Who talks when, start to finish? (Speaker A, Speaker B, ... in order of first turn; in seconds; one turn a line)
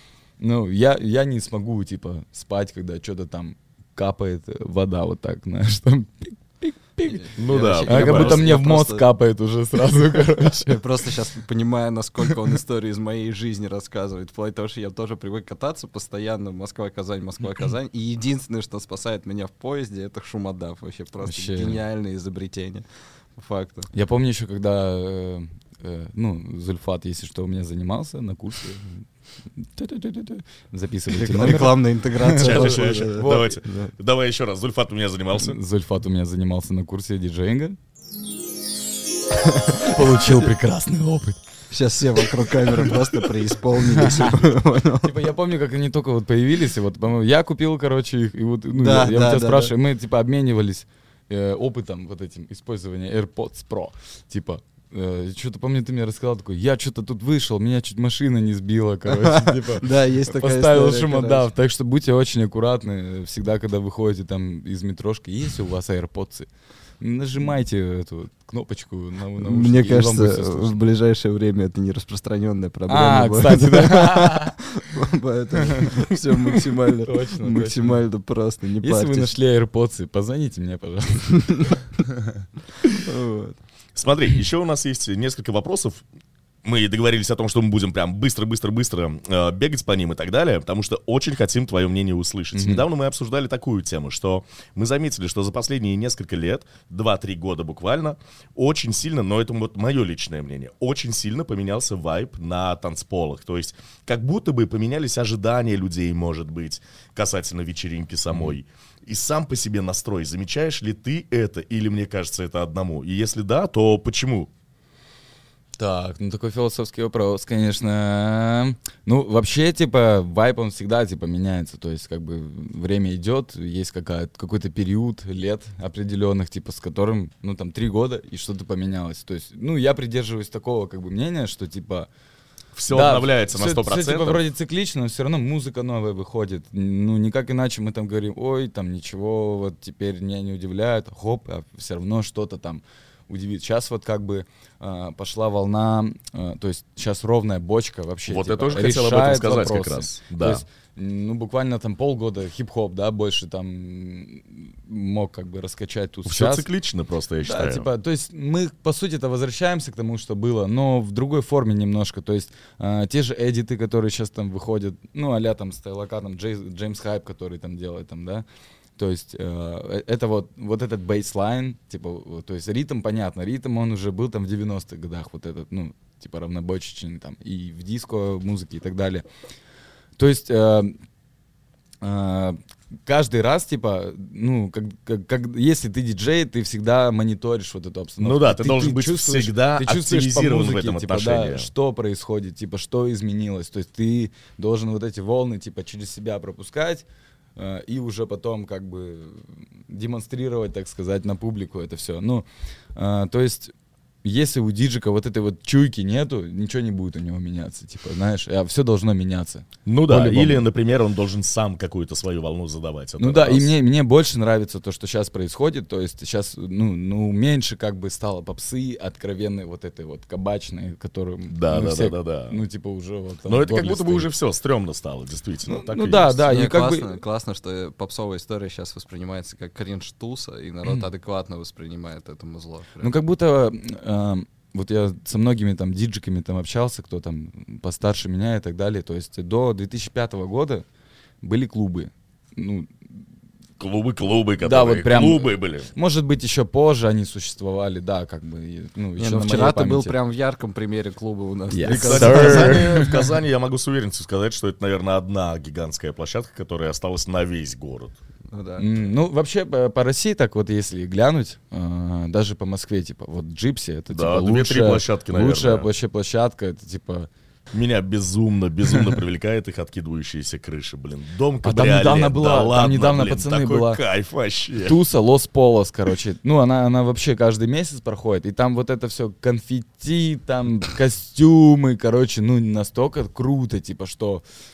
Speaker A: 0.4-10.8
Speaker B: 7.0-9.1
Speaker C: 7.4-8.4
Speaker B: 10.4-23.9
Speaker A: 21.2-21.8
Speaker A: 23.9-33.6
Speaker B: 31.1-33.9
Speaker C: 32.4-35.6
Speaker A: 35.3-37.8
Speaker B: 39.5-40.0
Speaker A: 39.8-41.4
Speaker B: 41.7-45.1
Speaker A: 43.8-44.4
Speaker A: 45.0-66.5
Speaker B: 48.7-49.7
Speaker B: 59.2-61.5
Speaker A: 67.0-70.8
Speaker B: 69.4-79.3
Speaker A: 72.9-74.6
Speaker A: 77.0-78.0
Speaker A: 78.8-82.4
Speaker B: 83.0-83.6
Speaker C: 83.9-86.0
Speaker C: 86.6-114.5
Speaker A: 92.5-92.8
Speaker A: 108.3-108.6
Speaker A: 115.8-132.1
Speaker C: 132.7-134.4
Speaker A: 132.9-156.7
Speaker C: 148.3-150.6
Speaker C: 156.2-157.9
Speaker A: 157.4-168.4
Speaker A: 169.0-179.2
Speaker A: 180.2-180.9
Speaker A: 182.0-203.7
Speaker C: 188.2-191.7
Speaker A: 204.2-210.6
Speaker C: 209.8-213.7
Speaker A: 213.2-224.3
Speaker C: 221.5-222.6
Speaker C: 223.5-226.4
Speaker A: 225.7-227.2
Speaker B: 226.5-233.1
Speaker A: 233.0-240.8
Speaker A: 241.4-243.0
Speaker C: 243.8-245.9
Speaker A: 244.6-250.1
Speaker B: 249.2-252.9
Speaker A: 251.7-253.3
Speaker C: 251.9-258.1
Speaker B: 258.5-258.9
Speaker A: 258.8-267.3
Speaker C: 264.1-265.9
Speaker C: 267.7-275.0
Speaker A: 271.6-274.0
Speaker A: 274.8-284.4